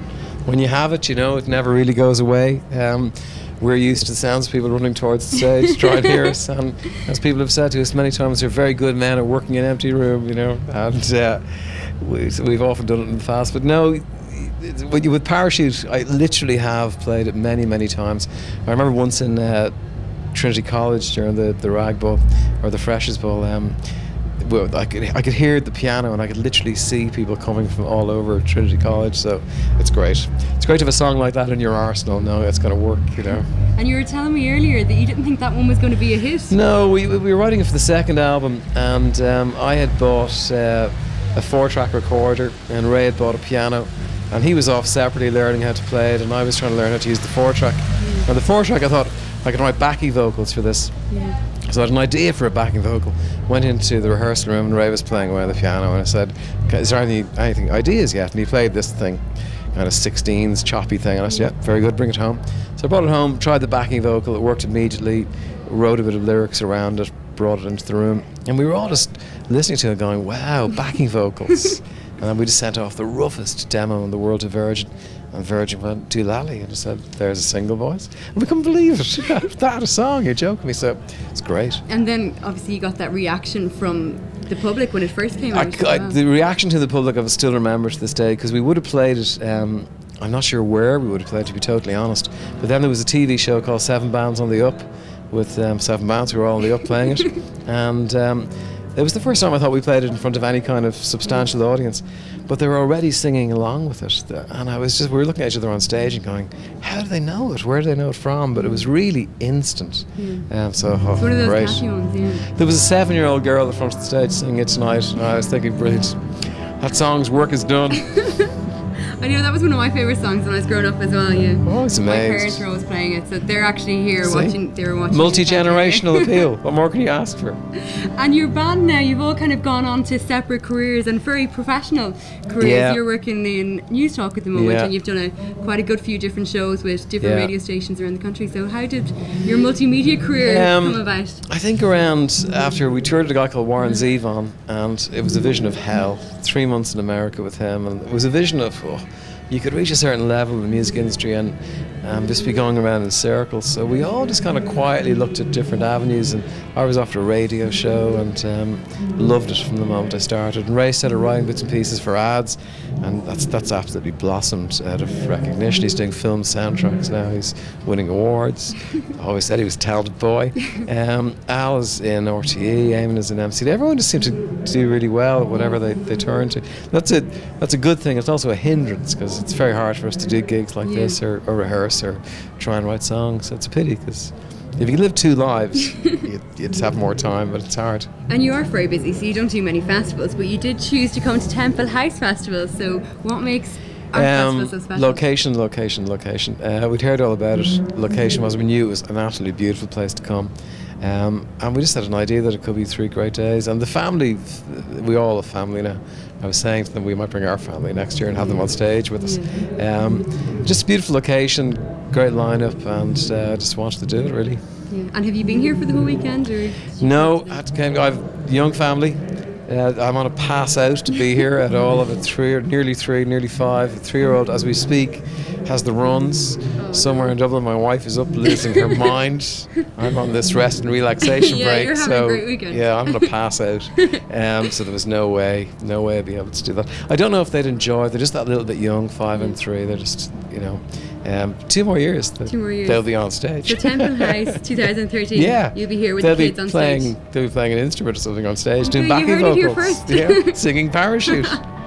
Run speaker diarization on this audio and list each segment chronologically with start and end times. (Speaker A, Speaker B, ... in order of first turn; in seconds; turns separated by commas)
Speaker A: 0.5-19.7, Speaker A: 20.3-23.8, Speaker A: 24.4-33.5, Speaker B: 33.7-36.6, Speaker A: 36.5-51.0, Speaker B: 48.0-48.3, Speaker B: 51.1-51.4, Speaker A: 51.6-59.2, Speaker A: 59.7-81.8, Speaker B: 81.9-86.2, Speaker A: 85.5-111.8, Speaker B: 110.2-110.5, Speaker B: 111.2-112.5, Speaker A: 112.4-118.2, Speaker B: 118.0-118.5, Speaker B: 119.1-126.4, Speaker A: 121.6-122.6, Speaker A: 124.2-124.6, Speaker A: 125.1-127.6, Speaker B: 127.9-141.4, Speaker A: 132.6-133.0, Speaker A: 134.5-134.9, Speaker A: 137.2-137.5, Speaker A: 140.4-188.1, Speaker B: 180.8-181.2, Speaker B: 185.9-186.2, Speaker B: 188.3-195.2, Speaker A: 194.1-214.6, Speaker B: 208.4-209.5, Speaker B: 214.9-217.6, Speaker A: 217.0-244.6, Speaker B: 226.8-227.3, Speaker B: 228.5-229.1, Speaker B: 231.2-233.3, Speaker B: 242.5-243.0, Speaker B: 243.6-247.1, Speaker A: 245.3-251.6, Speaker B: 248.8-250.6, Speaker B: 251.3-251.6